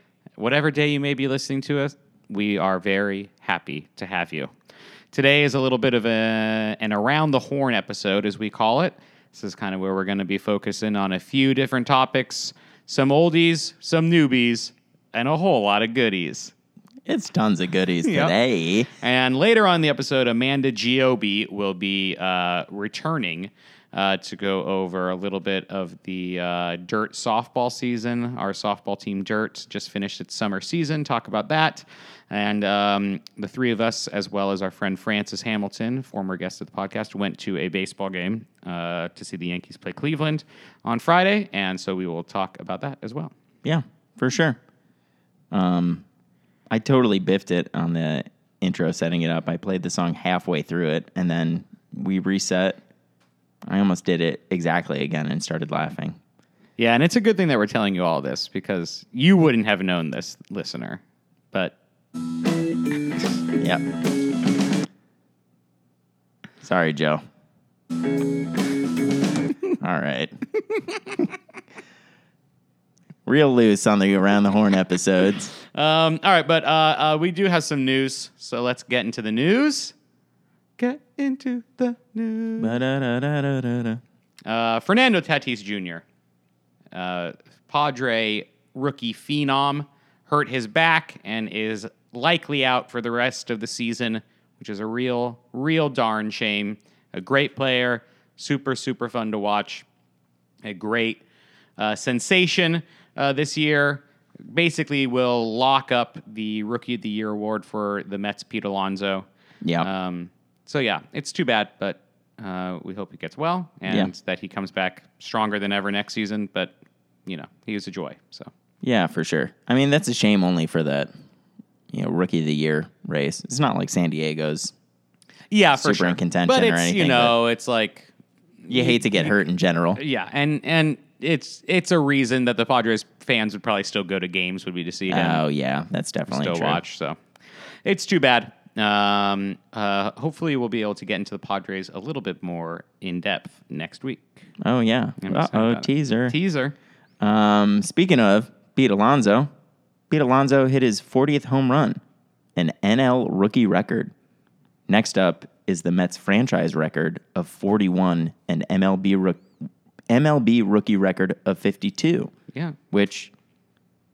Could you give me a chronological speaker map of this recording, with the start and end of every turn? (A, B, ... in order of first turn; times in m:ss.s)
0:00.4-0:04.5 A
0:05.1-0:16.5 A
0:17.1-0:18.9 B
0:18.0-0:18.3 A
0:19.0-0:43.3 A
0:43.6-0:44.6 B
0:45.5-0:46.0 B
0:46.7-0:52.8 B
0:53.7-0:56.2 B
0:56.8-1:01.0 A
1:03.6-1:03.8 B
1:06.6-1:07.2 B
1:09.8-1:10.3 B
1:13.3-1:15.5 B
1:15.7-1:20.0 A
1:20.8-1:22.8 A
1:22.6-1:24.0 B
1:24.5-1:26.0 A
1:26.9-1:39.8 A
1:40.6-1:41.2 A
1:41.8-1:49.3 A
1:49.6-1:49.9 B
1:49.8-1:56.8 A
1:57.3-1:58.5 A
1:58.8-2:01.1 B
2:01.9-2:04.7 B
2:05.5-2:08.1 A
2:05.8-2:07.4 B
2:08.6-2:09.3 A
2:08.7-2:10.0 B
2:10.0-2:15.4 A
2:15.1-2:16.8 B
2:16.3-2:17.2 A
2:17.8-2:24.4 A
2:24.6-2:26.4 B
2:25.2-2:26.8 A
2:27.2-2:29.5 B
2:30.1-2:32.0 B
2:32.6-2:34.1 B
2:34.9-2:39.4 B
2:40.1-2:42.3 B
2:42.9-2:43.3 B